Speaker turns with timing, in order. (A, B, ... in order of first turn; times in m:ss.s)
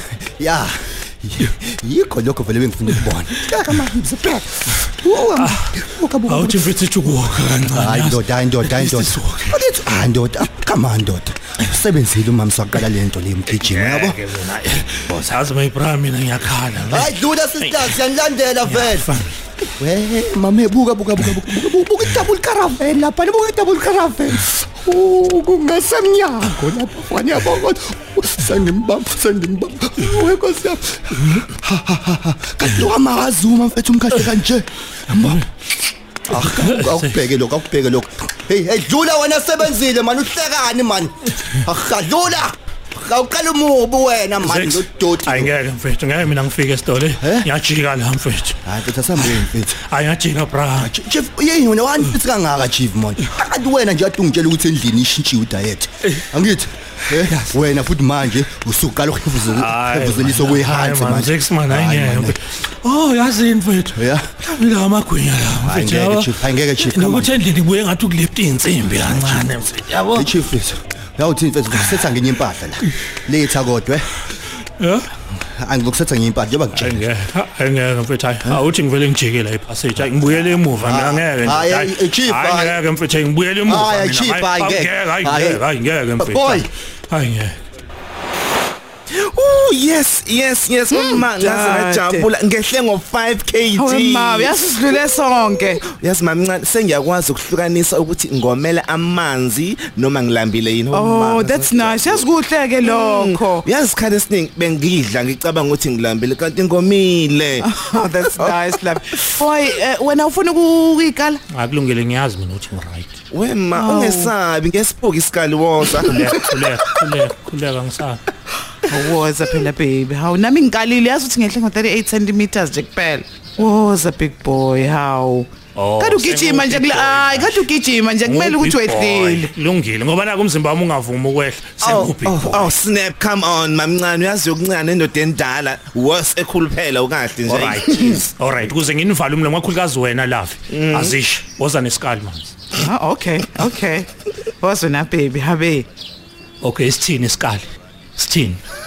0:00.2-0:06.8 A
0:05.4-0:09.6 B
0:07.7-0:14.2 A
0:13.5-0:18.0 B
0:16.9-0:19.1 A
0:18.7-0:19.3 B
0:19.8-0:35.5 A
0:36.3-0:45.5 A
0:36.3-0:37.2 B
0:44.4-0:48.6 B
0:47.2-0:47.5 A
0:48.7-0:49.8 A
0:49.2-0:50.9 B
0:50.8-1:02.4 A
0:57.3-0:57.5 B
0:59.4-1:10.3 B
1:03.9-1:04.3 A
1:05.6-1:07.3 A
1:09.1-1:09.4 A
1:10.1-1:14.2 A
1:14.8-1:15.1 B
1:15.4-1:17.0 A
1:16.7-1:27.6 B
1:20.8-1:22.8 A
1:23.7-1:25.6 A
1:26.2-1:26.7 A
1:29.1-1:34.6 C
1:30.9-1:32.3 D
1:33.8-1:35.8 D
1:35.8-1:42.2 C
1:40.9-1:43.6 D
1:42.8-1:47.7 C
1:47.6-1:51.4 D
1:51.5-1:53.2 B
1:53.3-1:56.2 C
1:53.8-1:54.3 D
1:56.0-1:58.2 B
1:58.9-2:09.5 D
2:05.8-2:07.7 B
2:08.2-2:12.7 B
2:11.8-2:18.2 C
2:17.4-2:22.6 B
2:20.7-2:21.2 C
2:22.8-2:24.1 D
2:24.6-2:25.9 D
2:26.6-2:28.6 B